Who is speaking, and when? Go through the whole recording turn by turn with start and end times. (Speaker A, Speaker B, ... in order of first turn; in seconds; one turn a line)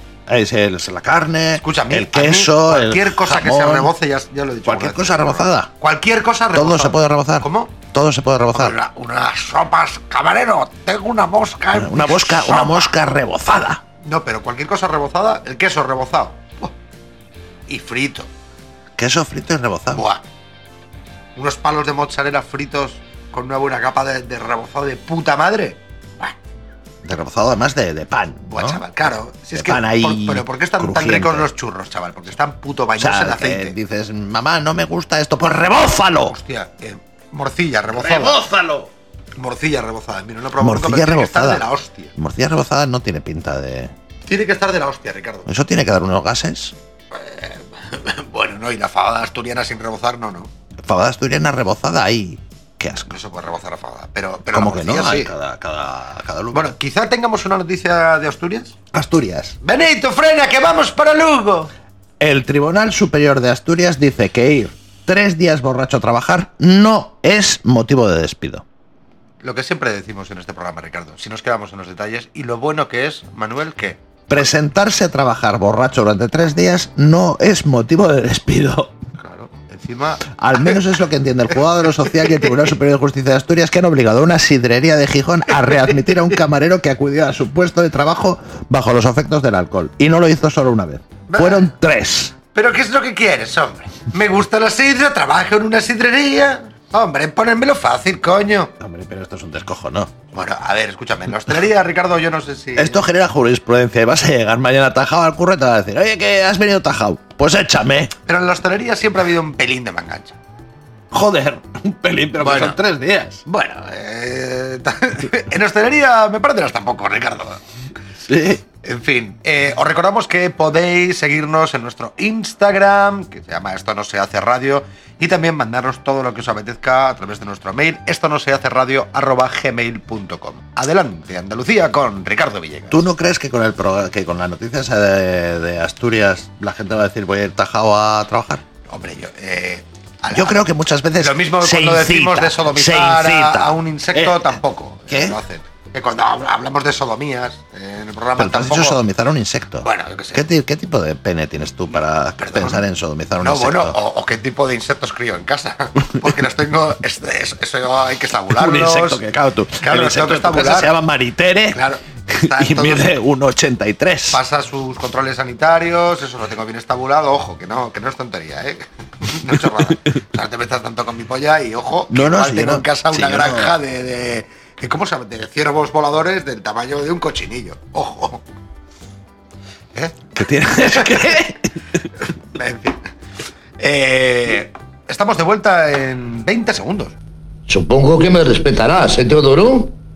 Speaker A: 0.3-3.9
Speaker B: 1.6-7.7
Speaker A: 4.6-5.7
Speaker A: 6.5-8.8
Speaker B: 8.5-12.9
Speaker A: 11.7-13.8
Speaker B: 14.0-16.7
Speaker B: 17.7-18.3
Speaker A: 19.0-20.0
Speaker B: 19.9-20.2
Speaker B: 21.4-26.3
Speaker A: 27.0-28.8
Speaker B: 28.5-33.8
Speaker A: 29.5-31.5
Speaker A: 33.0-36.4
Speaker B: 36.3-38.4
Speaker A: 37.9-38.9
Speaker B: 39.4-42.1
Speaker A: 40.6-43.9
Speaker B: 44.2-45.5
Speaker A: 45.5-46.7
Speaker B: 47.1-50.5
Speaker A: 50.8-53.1
Speaker B: 53.0-55.3
Speaker A: 54.5-56.7
Speaker B: 56.5-58.7
Speaker A: 58.9-59.6
Speaker B: 59.6-61.7
Speaker A: 62.2-68.6
Speaker B: 69.4-74.4
Speaker A: 74.3-79.0
Speaker B: 79.2-80.8
Speaker A: 80.3-92.3
Speaker B: 91.3-91.7
Speaker B: 92.5-98.7
Speaker A: 98.8-100.1
Speaker B: 100.3-103.0
Speaker A: 102.8-108.1
Speaker B: 108.2-110.4
Speaker A: 111.1-113.4
Speaker B: 112.4-112.8
Speaker B: 113.5-117.6
Speaker A: 118.2-118.6
Speaker B: 118.8-133.0
Speaker A: 132.9-138.6
Speaker B: 138.9-140.6
Speaker A: 140.3-144.6
Speaker B: 141.2-149.0
Speaker A: 145.1-145.4
Speaker A: 148.4-154.0
Speaker B: 149.8-150.4
Speaker B: 152.4-152.8
Speaker B: 153.4-159.2
Speaker A: 158.5-164.4
Speaker B: 159.8-160.9
Speaker B: 161.7-163.1
Speaker B: 164.3-178.4
Speaker A: 172.1-173.8
Speaker A: 180.3-181.7
Speaker B: 180.8-181.3
Speaker B: 182.5-183.0
Speaker B: 183.8-187.1
Speaker C: 187.7-189.9